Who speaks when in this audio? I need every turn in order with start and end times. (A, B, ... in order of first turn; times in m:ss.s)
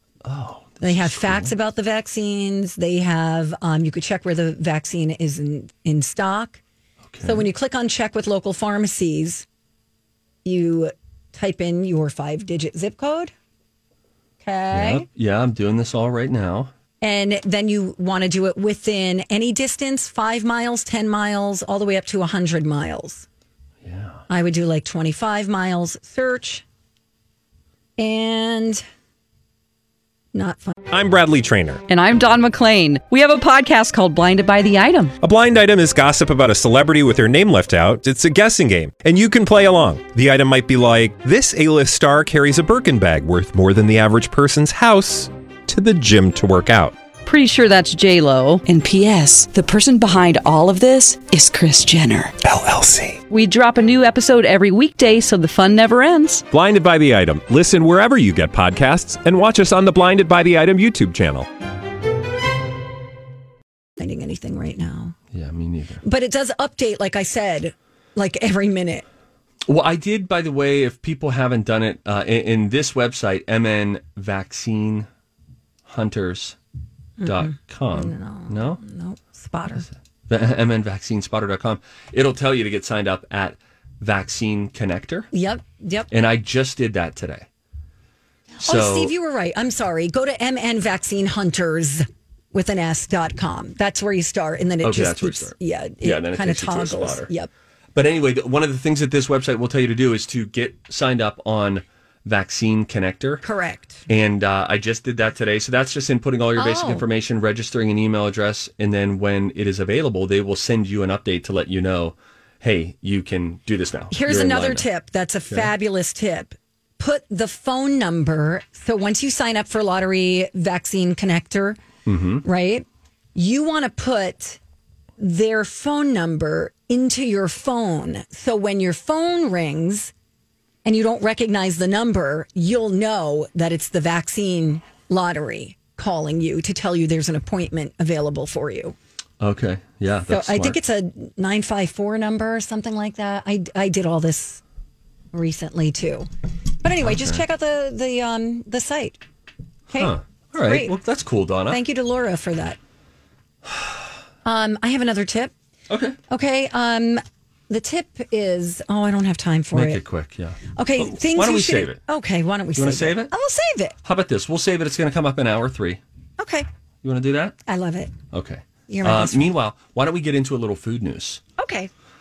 0:00.2-0:01.5 A
0:00.8-0:06.6 B
0:07.1-0:07.5 A
0:07.2-0:09.4 B
0:10.4-0:13.3 B
0:14.4-0:15.0 B
0:14.7-0:16.7 A
0:17.0-0:23.2 B
0:23.8-0:24.2 A
0:24.3-0:26.6 B
0:28.0-0:28.8 B
0:30.3-0:30.8 B
0:30.9-0:31.8 C
0:31.9-0:35.1 D
0:35.2-0:47.0 C
0:47.2-0:52.3 D
0:52.4-0:53.2 C
0:53.3-0:56.4 D
0:56.5-1:01.5 C
1:04.0-1:05.1 B
1:05.3-1:06.0 A
1:06.0-1:09.0 B
1:09.6-1:15.1 A
1:15.8-1:16.6 A
1:17.2-1:19.9 B
1:17.2-1:18.8 A
1:19.8-1:25.3 A
1:25.3-1:26.1 B
1:26.1-1:27.4 A
1:28.6-1:29.1 A
1:28.6-1:37.5 B
1:34.8-1:37.3 A
1:37.9-1:43.4 A
1:43.4-1:44.0 B
1:44.1-1:54.9 A
1:46.6-1:47.0 B
1:54.1-2:01.8 B
2:02.0-2:02.4 A
2:02.4-2:04.6 B
2:05.2-2:10.1 B
2:10.8-2:19.0 B
2:19.4-2:20.8 A
2:20.3-2:24.6 B
2:25.3-2:26.3 B
2:26.8-2:29.2 B
2:27.0-2:27.4 A
2:29.9-2:30.9 B
2:30.0-2:31.8 A
2:31.7-2:32.8 B
2:33.7-2:33.9 A
2:34.4-2:35.5 B
2:35.9-2:36.2 A
2:36.3-2:40.0 B
2:39.7-2:42.0 A
2:40.8-2:43.9 B
2:42.7-2:43.3 A
2:44.0-2:46.0 A
2:46.4-2:46.7 B
2:47.0-2:47.6 A
2:47.7-2:48.1 B
2:48.3-2:51.4 A
2:48.9-2:49.5 B
2:51.6-2:51.9 B